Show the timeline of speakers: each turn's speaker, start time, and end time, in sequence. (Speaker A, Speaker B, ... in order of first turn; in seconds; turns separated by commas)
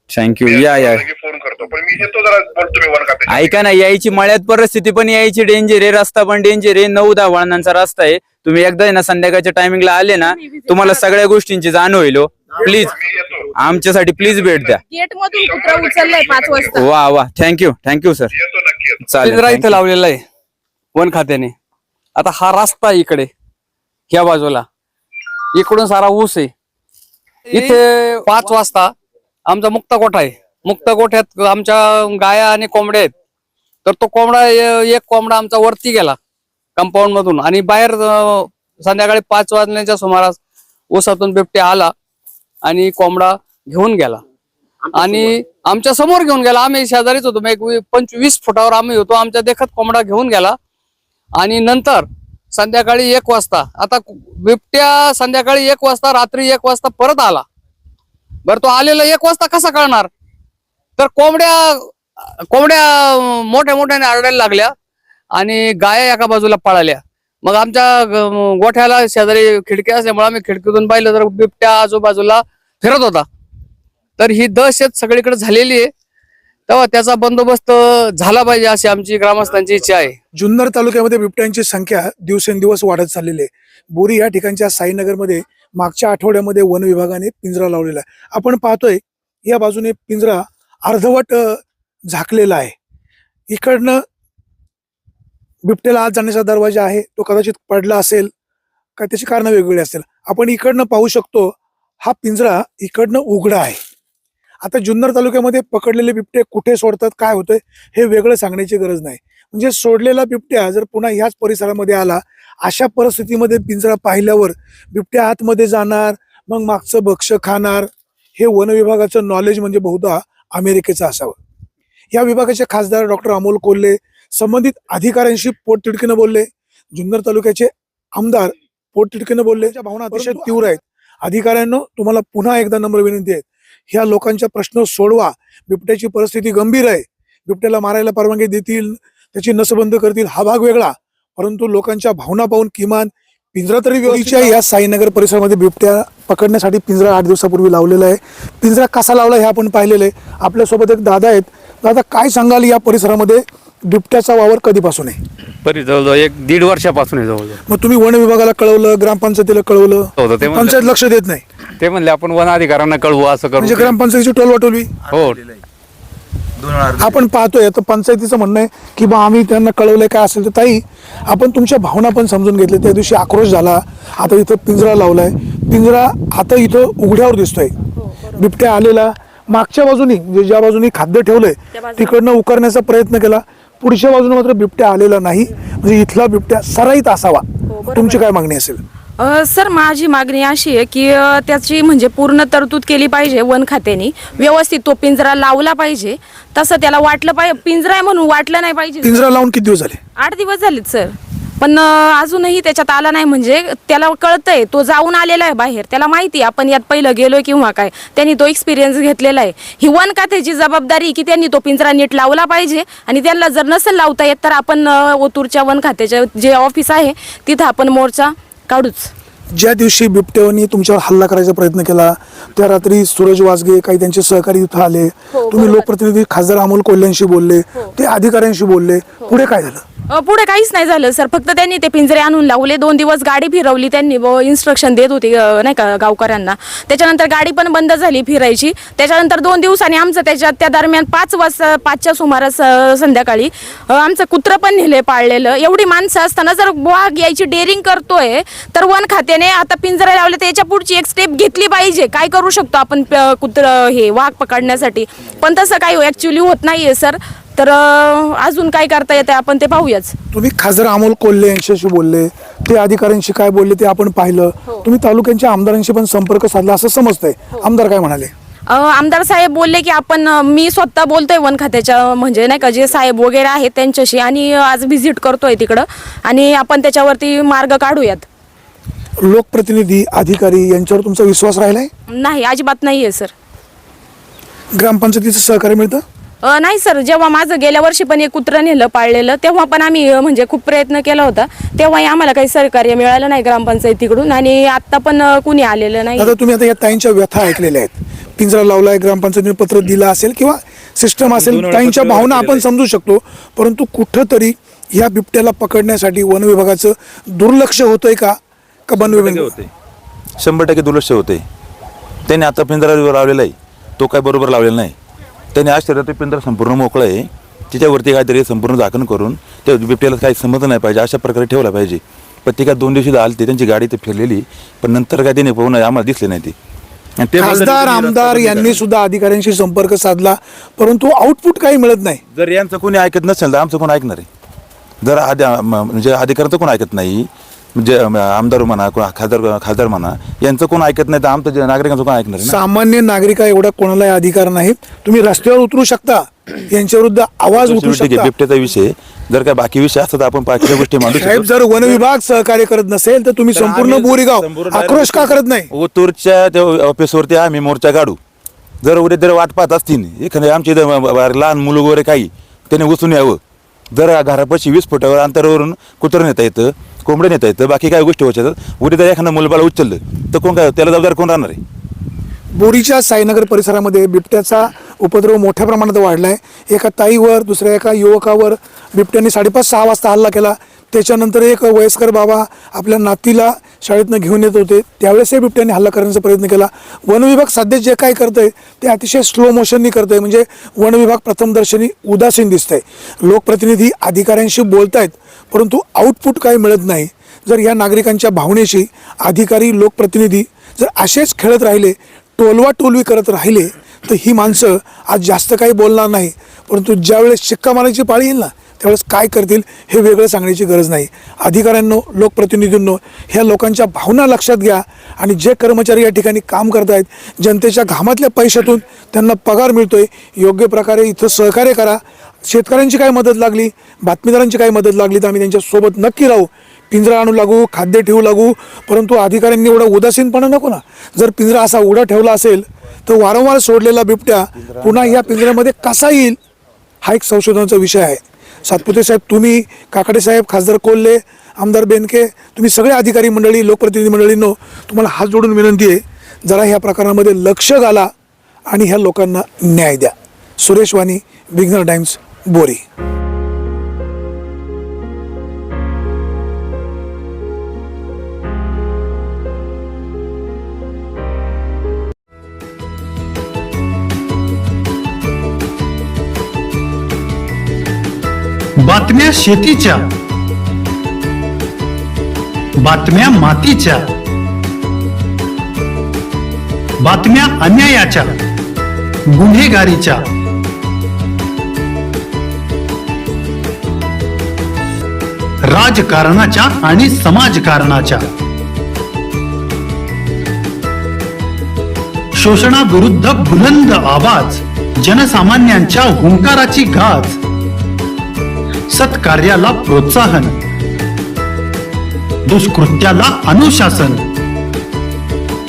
Speaker A: 0.1-1.1, Speaker B: 0.4-3.6, Speaker A: 3.3-13.0, Speaker C: 10.2-11.1, Speaker B: 12.6-13.5, Speaker A: 13.5-14.8, Speaker B: 14.2-14.8, Speaker C: 14.9-16.9, Speaker B: 15.4-16.8, Speaker A: 16.7-18.3, Speaker B: 18.3-19.1, Speaker A: 19.0-19.8, Speaker D: 19.2-20.2, Speaker D: 20.9-21.5, Speaker D: 22.1-23.3, Speaker D: 24.1-24.6, Speaker D: 25.5-26.5, Speaker D: 27.5-28.9, Speaker D: 29.4-33.1, Speaker D: 33.8-36.2, Speaker D: 36.8-40.4, Speaker D: 40.9-41.9, Speaker D: 42.6-44.2, Speaker D: 44.9-50.6, Speaker D: 51.4-57.5, Speaker D: 58.4-60.1, Speaker D: 61.0-61.9, Speaker D: 62.5-64.7, Speaker D: 65.3-73.2, Speaker D: 74.2-75.9, Speaker D: 76.7-80.2, Speaker E: 80.3-92.7, Speaker E: 93.5-94.0, Speaker E: 95.6-98.3, Speaker E: 99.0-103.8, Speaker E: 104.6-121.3, Speaker E: 122.1-155.2, Speaker F: 155.6-157.6, Speaker E: 157.7-161.4, Speaker F: 160.2-160.9, Speaker F: 161.8-163.9, Speaker E: 163.6-164.9, Speaker G: 165.0-165.6, Speaker F: 165.1-165.4, Speaker G: 166.6-167.3, Speaker E: 167.0-177.7, Speaker C: 178.0-178.4, Speaker E: 178.3-188.8, Speaker C: 181.7-182.2, Speaker C: 187.7-188.2, Speaker C: 189.2-199.2, Speaker E: 199.0-200.0, Speaker C: 200.2-219.1, Speaker E: 219.5-229.8, Speaker C: 225.3-225.8, Speaker C: 230.1-260.1, Speaker E: 260.3-268.3, Speaker C: 268.7-278.2, Speaker E: 279.2-281.9, Speaker C: 282.1-283.3, Speaker E: 284.7-286.0, Speaker C: 286.4-296.3, Speaker E: 296.1-309.6, Speaker G: 301.4-302.4, Speaker G: 308.9-309.7, Speaker G: 310.4-311.4, Speaker G: 312.2-314.9, Speaker G: 315.5-326.5, Speaker G: 327.2-328.8, Speaker E: 327.4-332.2, Speaker G: 332.3-334.3, Speaker G: 335.0-342.6, Speaker E: 342.4-348.3, Speaker G: 347.5-352.0, Speaker E: 350.6-355.7, Speaker G: 353.5-358.2, Speaker G: 358.8-363.4, Speaker G: 363.9-371.6, Speaker E: 372.5-436.4, Speaker G: 434.6-435.4, Speaker E: 437.0-448.1, Speaker E: 448.7-452.8, Speaker H: 468.8-470.1, Speaker H: 472.8-474.1, Speaker H: 477.0-478.4, Speaker H: 479.3-480.3, Speaker H: 485.6-488.3, Speaker H: 492.3-497.4, Speaker H: 498.9-500.6, Speaker H: 502.4-504.3